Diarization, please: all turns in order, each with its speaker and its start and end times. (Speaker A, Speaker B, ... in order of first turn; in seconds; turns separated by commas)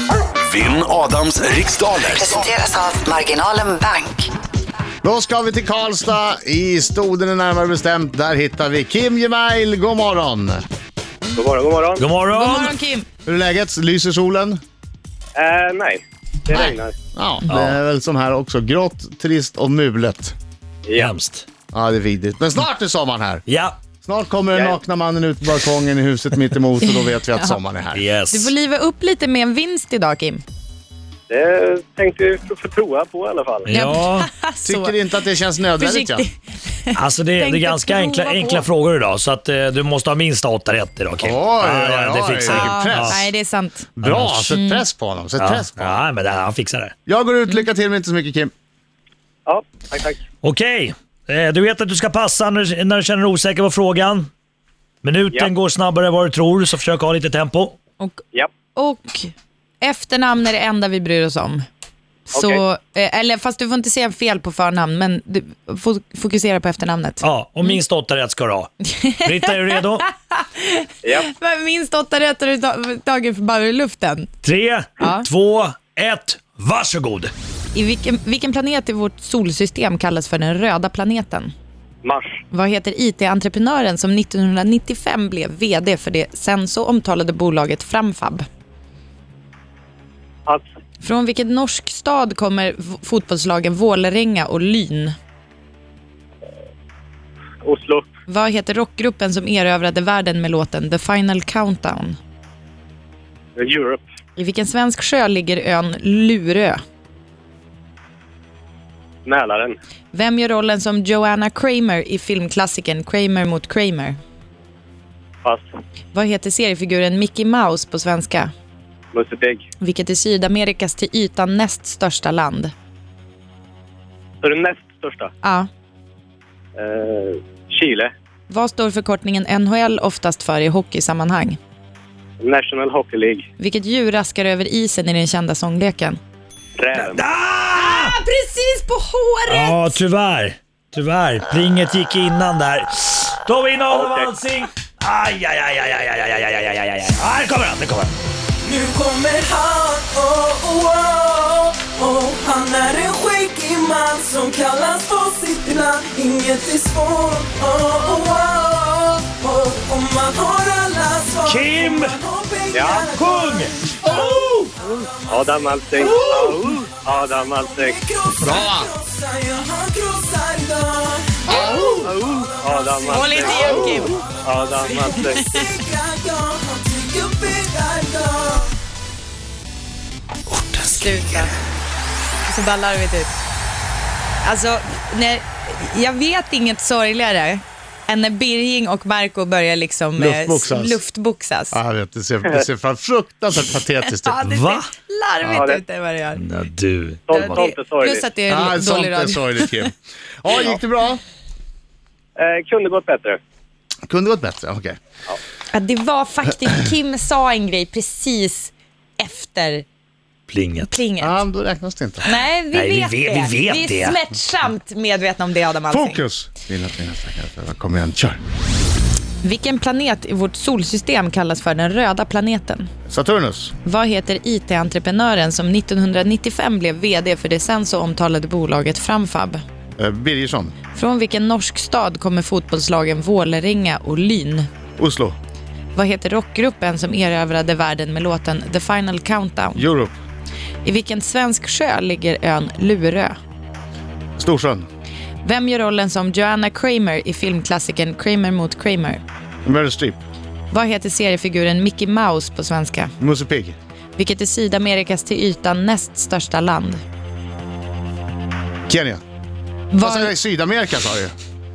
Speaker A: 0.4-2.5, Speaker B: 2.1-4.3, Speaker C: 5.0-10.6, Speaker D: 11.3-12.0, Speaker E: 12.0-12.8, Speaker F: 12.3-13.1, Speaker C: 13.2-14.6, Speaker D: 15.4-16.9, Speaker C: 16.5-20.3, Speaker E: 17.5-17.8, Speaker D: 20.8-21.1, Speaker E: 20.9-21.4, Speaker C: 21.7-23.4, Speaker E: 23.5-23.8, Speaker C: 24.0-28.0, Speaker D: 24.5-24.8, Speaker F: 26.8-27.6, Speaker E: 27.9-28.5, Speaker F: 28.3-30.4, Speaker D: 31.3-33.7, Speaker E: 33.7-34.3, Speaker F: 33.7-35.2, Speaker C: 34.6-36.2, Speaker F: 35.8-38.6, Speaker E: 36.9-43.3, Speaker C: 41.2-43.2, Speaker F: 42.5-43.9, Speaker C: 44.0-46.0, Speaker E: 44.0-44.5, Speaker F: 44.5-44.9, Speaker E: 45.4-46.9, Speaker C: 47.0-48.5, Speaker D: 49.5-50.2, Speaker E: 50.4-54.3, Speaker E: 55.0-57.8, Speaker F: 58.7-61.6, Speaker F: 62.3-67.8, Speaker D: 62.3-62.6, Speaker E: 67.2-68.7, Speaker F: 68.9-74.3, Speaker E: 69.2-70.1, Speaker D: 71.0-71.3, Speaker E: 74.4-77.3, Speaker F: 75.0-75.3, Speaker F: 77.7-81.5, Speaker D: 82.0-82.4, Speaker F: 82.5-88.4, Speaker F: 91.0-95.1, Speaker D: 97.6-98.0, Speaker F: 98.3-102.2, Speaker D: 103.6-104.0, Speaker F: 104.3-106.8, Speaker D: 109.2-109.8, Speaker F: 110.1-114.2, Speaker F: 116.1-118.5, Speaker D: 119.1-119.6, Speaker F: 119.8-122.7, Speaker D: 124.4-125.3, Speaker F: 125.4-125.7, Speaker D: 126.8-128.1, Speaker F: 128.5-131.6, Speaker D: 132.4-133.4, Speaker F: 133.6-136.2, Speaker D: 136.8-137.2, Speaker E: 137.0-138.2, Speaker F: 137.7-140.0, Speaker E: 139.5-148.1, Speaker D: 143.9-144.3, Speaker G: 148.6-166.2, Speaker E: 161.4-162.2, Speaker D: 162.7-163.1, Speaker E: 163.1-164.7, Speaker D: 165.3-167.9, Speaker E: 166.1-166.6, Speaker G: 166.9-178.7, Speaker C: 168.4-168.9, Speaker C: 171.5-172.1, Speaker D: 172.0-173.8, Speaker F: 173.1-174.2, Speaker D: 174.4-175.4, Speaker F: 180.8-181.5, Speaker F: 182.4-183.3, Speaker F: 184.4-191.8, Speaker C: 190.2-191.0, Speaker C: 191.7-194.4, Speaker F: 194.2-196.4, Speaker E: 194.4-194.8, Speaker D: 195.4-195.8, Speaker E: 196.3-197.6, Speaker D: 197.3-198.2, Speaker F: 197.3-199.9, Speaker C: 198.5-201.2, Speaker D: 202.4-203.4, Speaker C: 204.1-205.0, Speaker F: 205.7-209.8, Speaker E: 210.5-210.9, Speaker F: 210.9-211.4, Speaker C: 211.2-212.2, Speaker F: 212.2-216.2, Speaker E: 212.7-214.2, Speaker C: 215.9-218.4, Speaker F: 219.4-222.9, Speaker C: 223.1-223.7, Speaker F: 223.8-229.6, Speaker C: 230.0-230.7, Speaker F: 230.9-234.7, Speaker C: 235.0-235.3, Speaker F: 235.9-239.8, Speaker C: 239.8-240.2, Speaker F: 240.8-243.3, Speaker C: 244.4-244.9, Speaker F: 245.4-249.2, Speaker C: 249.6-250.2, Speaker F: 250.7-253.1, Speaker C: 253.2-253.8, Speaker F: 254.2-257.0, Speaker C: 258.9-259.2, Speaker F: 259.9-260.3, Speaker C: 260.0-261.3